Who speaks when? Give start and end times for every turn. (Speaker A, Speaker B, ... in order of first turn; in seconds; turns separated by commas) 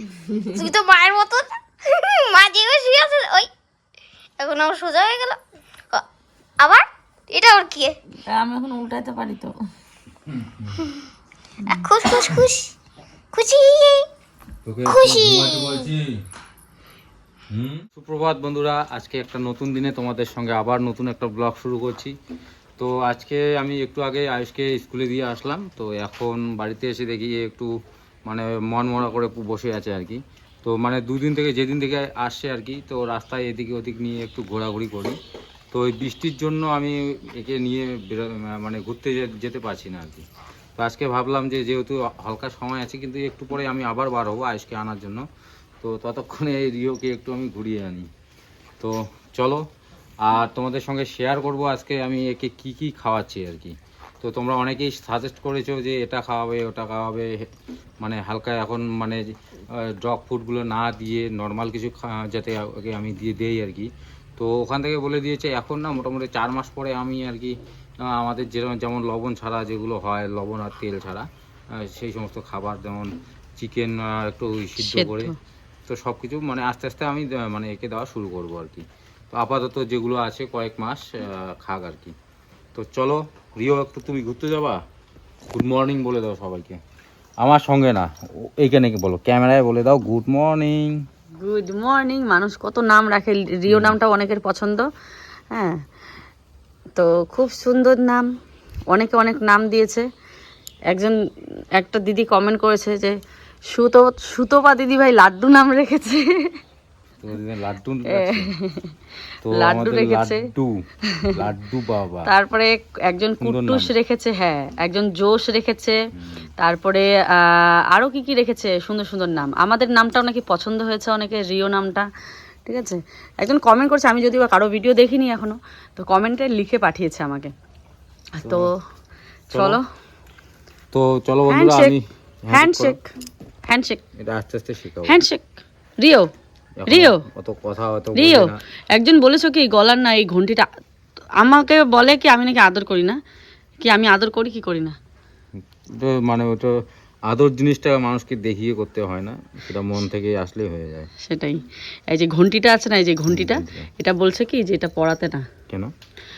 Speaker A: 0.2-0.6, Speaker B: 0.5-3.5, Speaker B: 4.4-5.4, Speaker B: 6.6-8.0, Speaker A: 8.3-9.6, Speaker C: 10.3-10.9, Speaker B: 11.7-12.7, Speaker B: 13.3-14.1, Speaker C: 14.7-16.2, Speaker B: 14.9-15.9, Speaker C: 17.5-22.1, Speaker C: 22.8-27.7, Speaker C: 28.3-35.2, Speaker C: 35.7-40.3, Speaker C: 40.8-45.2, Speaker C: 45.8-48.1, Speaker C: 48.8-49.6, Speaker C: 50.2-57.5, Speaker C: 58.0-75.3, Speaker A: 74.8-75.3, Speaker C: 75.9-82.2, Speaker C: 82.8-84.8, Speaker C: 85.5-86.8, Speaker C: 87.4-91.0, Speaker A: 91.4-94.9, Speaker C: 93.7-94.0, Speaker A: 95.5-95.8, Speaker A: 97.0-98.3, Speaker A: 98.9-100.1, Speaker A: 100.9-101.2, Speaker A: 101.7-103.2, Speaker A: 103.7-106.5, Speaker C: 107.2-108.5, Speaker A: 108.1-108.9, Speaker C: 109.5-112.3, Speaker A: 109.5-110.5, Speaker A: 111.1-111.3, Speaker A: 112.3-116.0, Speaker C: 113.4-113.9, Speaker C: 116.1-116.5, Speaker A: 116.6-122.1, Speaker A: 122.7-127.5, Speaker A: 128.4-128.7, Speaker C: 128.4-128.7, Speaker C: 129.5-129.8, Speaker A: 129.5-129.8, Speaker C: 130.9-133.0, Speaker A: 131.5-132.0, Speaker A: 132.5-133.1, Speaker A: 133.7-134.0, Speaker C: 134.2-135.2, Speaker A: 135.1-136.3, Speaker C: 136.8-138.6, Speaker A: 136.9-137.2, Speaker A: 138.1-140.7, Speaker A: 141.4-143.2, Speaker A: 143.8-145.0, Speaker C: 145.8-146.8, Speaker C: 147.3-151.1, Speaker A: 151.2-155.5, Speaker C: 153.3-153.9